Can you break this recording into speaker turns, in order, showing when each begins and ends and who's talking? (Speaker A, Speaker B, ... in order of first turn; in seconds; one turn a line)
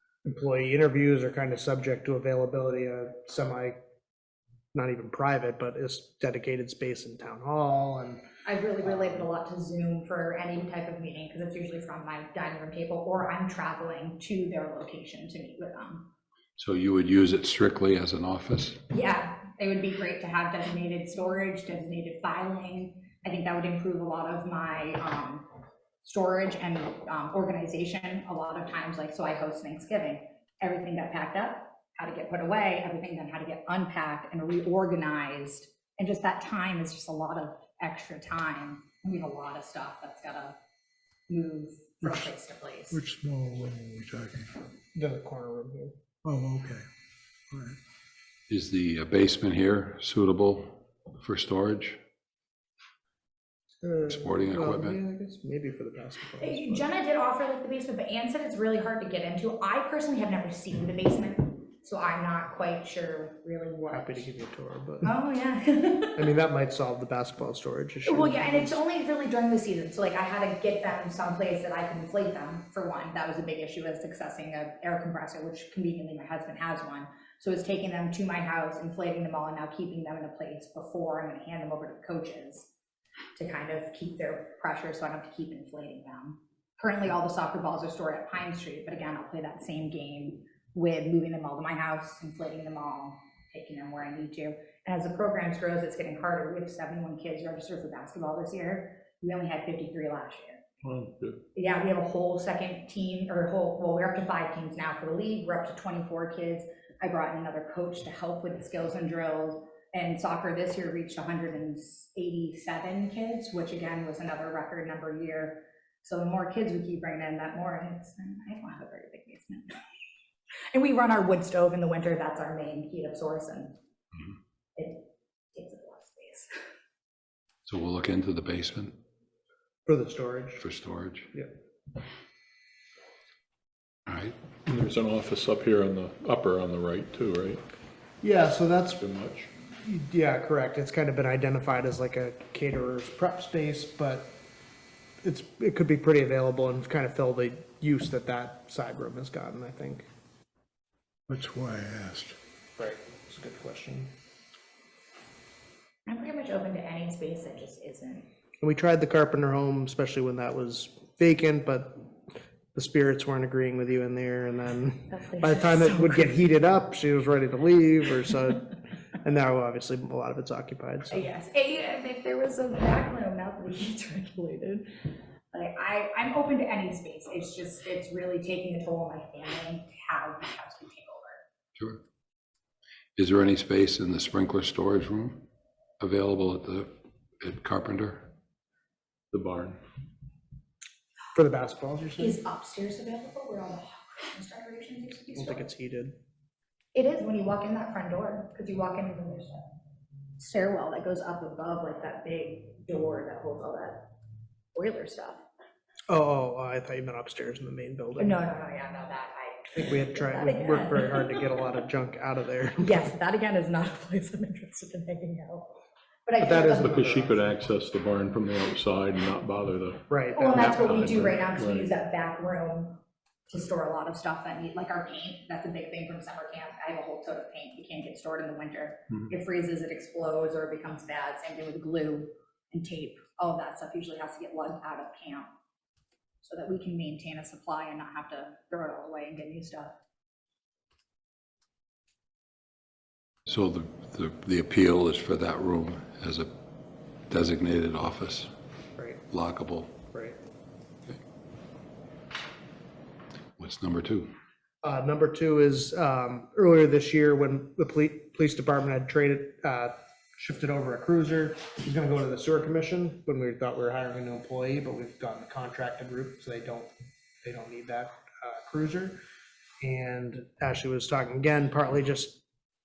Speaker A: 0.3-3.8
Speaker A: 4.7-8.2
Speaker B: 8.4-16.1
Speaker C: 16.6-18.8
Speaker B: 18.9-25.5
Speaker B: 26.0-40.6
Speaker B: 41.3-43.0
Speaker D: 42.9-44.6
Speaker A: 44.9-45.9
Speaker D: 46.2-46.8
Speaker D: 47.5-47.8
Speaker C: 48.5-52.0
Speaker A: 53.8-56.9
Speaker C: 54.1-55.0
Speaker B: 56.4-64.3
Speaker A: 63.9-65.1
Speaker B: 65.0-66.2
Speaker A: 66.2-68.7
Speaker B: 68.1-82.7
Speaker B: 83.4-100.6
Speaker E: 100.8-101.4
Speaker B: 101.5-119.8
Speaker B: 120.7-123.8
Speaker B: 124.8-126.5
Speaker C: 127.7-128.9
Speaker A: 129.8-130.6
Speaker C: 130.6-131.3
Speaker C: 134.1-134.4
Speaker E: 134.7-137.6
Speaker A: 138.2-139.0
Speaker E: 139.0-139.5
Speaker A: 139.8-144.3
Speaker A: 145.2-150.1
Speaker D: 151.3-152.4
Speaker A: 152.8-154.1
Speaker B: 156.1-158.3
Speaker A: 158.6-162.0
Speaker A: 162.7-171.2
Speaker B: 165.1-166.4
Speaker B: 171.1-174.9
Speaker B: 175.5-181.4
Speaker C: 181.8-182.0
Speaker C: 183.2-185.4
Speaker C: 186.0-188.3
Speaker E: 189.3-189.8
Speaker A: 191.3-192.4
Speaker B: 192.2-195.7
Speaker A: 195.3-196.1
Speaker B: 196.9-199.6
Speaker B: 200.4-204.1
Speaker B: 204.8-205.4
Speaker A: 206.1-208.4
Speaker B: 208.2-211.5
Speaker A: 209.7-213.1
Speaker B: 212.8-215.7
Speaker B: 216.2-217.0
Speaker A: 216.4-217.4
Speaker E: 216.6-221.9
Speaker A: 220.1-221.3
Speaker B: 220.3-235.5
Speaker B: 236.4-239.9
Speaker C: 243.5-246.5
Speaker C: 247.3-248.5
Speaker A: 249.0-249.2
Speaker C: 249.3-249.9
Speaker A: 250.1-250.4
Speaker C: 253.6-254.3
Speaker A: 254.8-266.9
Speaker A: 267.4-269.2
Speaker A: 269.8-272.4